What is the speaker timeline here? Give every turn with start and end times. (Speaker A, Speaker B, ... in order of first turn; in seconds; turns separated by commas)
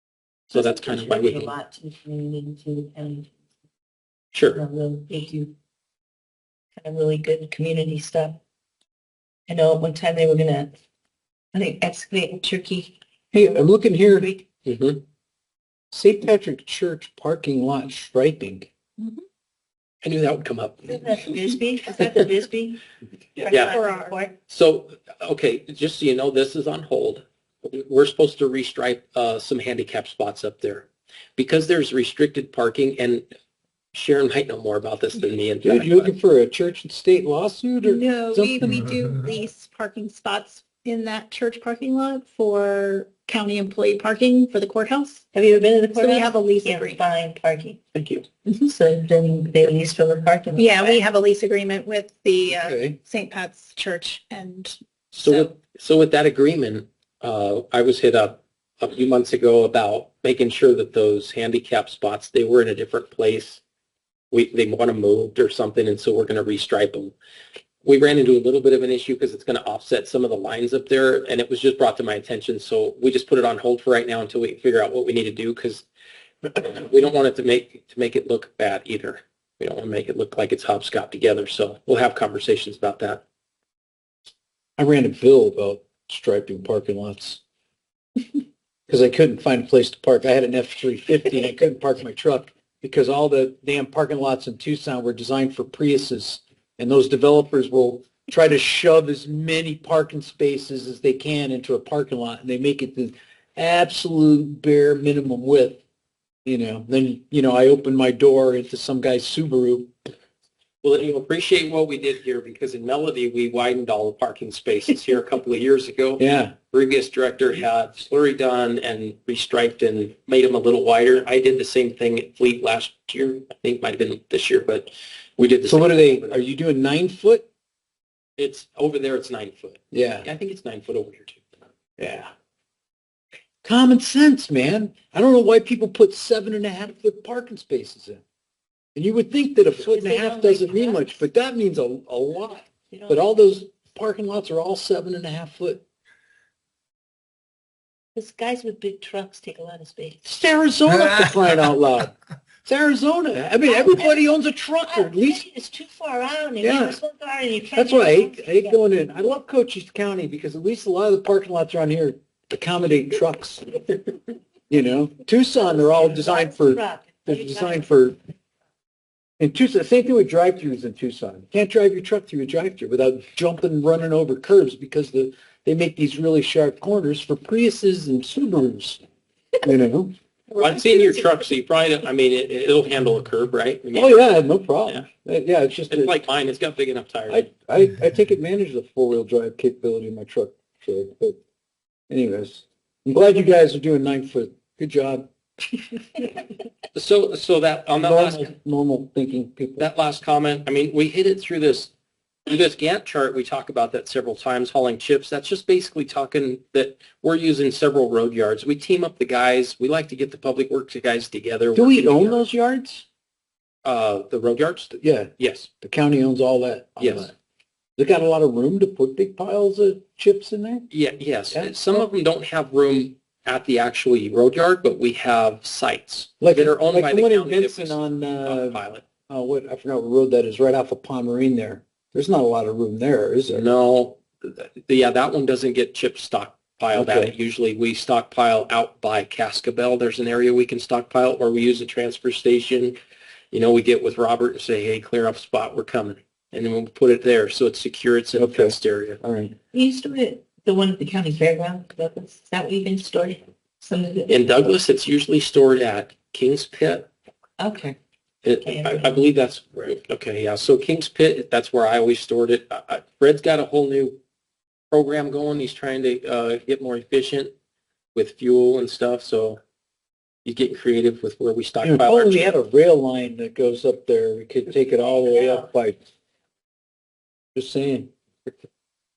Speaker A: 0.5-3.3, Speaker B: 0.5-1.5, Speaker B: 4.3-4.6, Speaker A: 4.5-5.5, Speaker A: 6.8-8.4, Speaker A: 9.5-10.8, Speaker A: 11.5-12.9, Speaker C: 13.3-14.3, Speaker A: 14.0-14.4, Speaker B: 14.6-15.0, Speaker C: 15.9-18.7, Speaker A: 19.0-19.2, Speaker B: 20.0-21.1, Speaker A: 20.9-22.8, Speaker A: 23.4-24.4, Speaker B: 23.5-23.8, Speaker D: 23.5-24.1, Speaker B: 24.5-33.2, Speaker B: 33.9-36.1, Speaker C: 35.6-38.7, Speaker D: 37.8-45.2, Speaker A: 45.3-47.8, Speaker D: 45.9-47.0, Speaker B: 47.9-48.2, Speaker A: 48.5-51.0, Speaker D: 50.5-55.5, Speaker C: 52.5-53.0, Speaker B: 55.1-63.6, Speaker B: 64.3-67.1, Speaker B: 67.8-75.8, Speaker B: 76.4-83.2, Speaker C: 84.8-87.4, Speaker C: 88.9-105.8, Speaker C: 106.4-109.9, Speaker B: 110.8-126.4, Speaker C: 116.2-116.5, Speaker C: 125.7-127.5, Speaker B: 128.4-131.4, Speaker C: 129.9-130.3, Speaker C: 132.0-132.3, Speaker C: 133.6-138.2, Speaker C: 138.9-145.8, Speaker A: 139.8-141.2, Speaker A: 142.9-143.2, Speaker A: 148.2-150.3, Speaker C: 150.2-155.4, Speaker A: 153.6-158.8, Speaker C: 156.6-157.0, Speaker C: 157.7-163.8, Speaker C: 164.7-168.2, Speaker A: 165.9-167.9, Speaker C: 169.4-179.0, Speaker C: 179.6-180.1, Speaker A: 180.5-181.3, Speaker B: 180.6-184.2, Speaker C: 183.9-186.2, Speaker B: 185.9-187.5, Speaker C: 187.3-191.4, Speaker C: 192.1-195.3, Speaker B: 196.9-198.5, Speaker C: 198.0-199.9, Speaker B: 199.8-201.9, Speaker B: 202.4-212.4, Speaker C: 211.7-213.1, Speaker B: 213.8-215.7, Speaker C: 215.0-217.3, Speaker B: 217.0-217.3, Speaker C: 218.0-220.9, Speaker B: 220.9-229.0, Speaker C: 221.5-222.0, Speaker C: 226.4-233.7, Speaker B: 233.5-243.0, Speaker C: 236.9-237.3, Speaker B: 243.5-249.2, Speaker C: 248.3-249.6, Speaker A: 249.7-254.3, Speaker B: 254.3-257.1, Speaker A: 257.6-258.0, Speaker B: 258.4-264.2, Speaker A: 258.6-259.2, Speaker B: 264.9-267.5, Speaker B: 268.1-269.6, Speaker B: 270.4-272.6, Speaker C: 271.8-276.0, Speaker A: 275.2-275.6, Speaker C: 277.5-278.1